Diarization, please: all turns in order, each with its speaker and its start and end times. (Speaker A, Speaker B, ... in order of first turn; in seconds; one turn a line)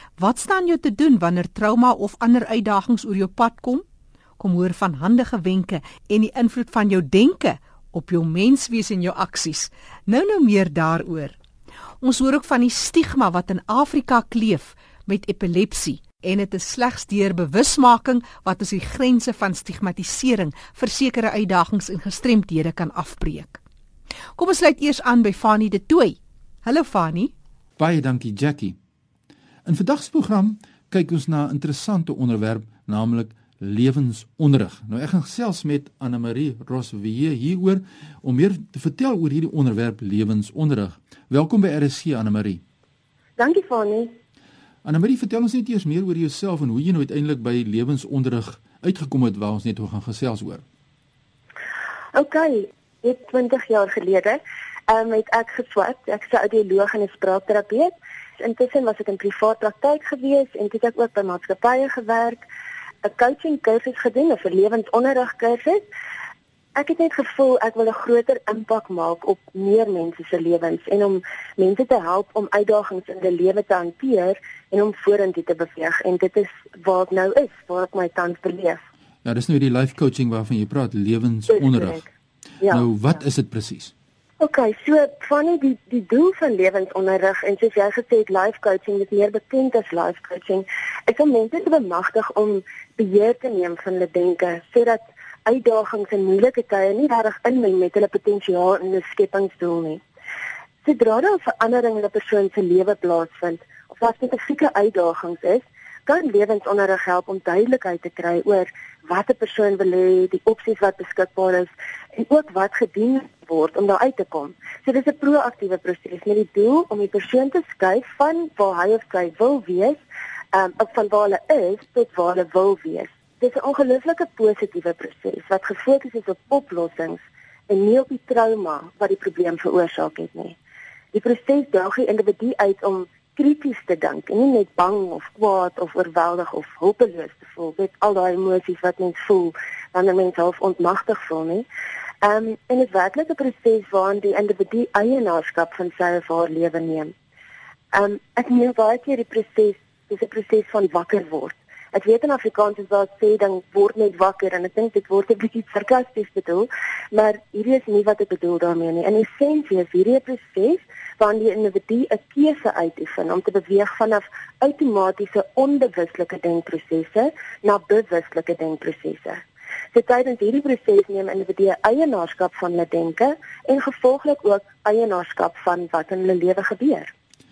Speaker A: 0.2-3.8
Speaker A: 4.4-11.3
Speaker A: 12.0-23.6
Speaker A: 24.4-27.3
Speaker B: 27.8-28.8
Speaker B: 29.6-42.6
Speaker C: 43.4-44.1
Speaker B: 44.8-50.6
Speaker C: 52.1-62.4
Speaker C: 63.0-65.8
Speaker C: 66.8-78.8
Speaker B: 79.2-82.0
Speaker B: 82.6-83.9
Speaker C: 84.4-100.0
Speaker C: 100.8-120.0
Speaker C: 120.5-130.6
Speaker C: 131.1-141.7
Speaker C: 142.2-147.1
Speaker C: 147.9-169.4
Speaker C: 169.9-177.1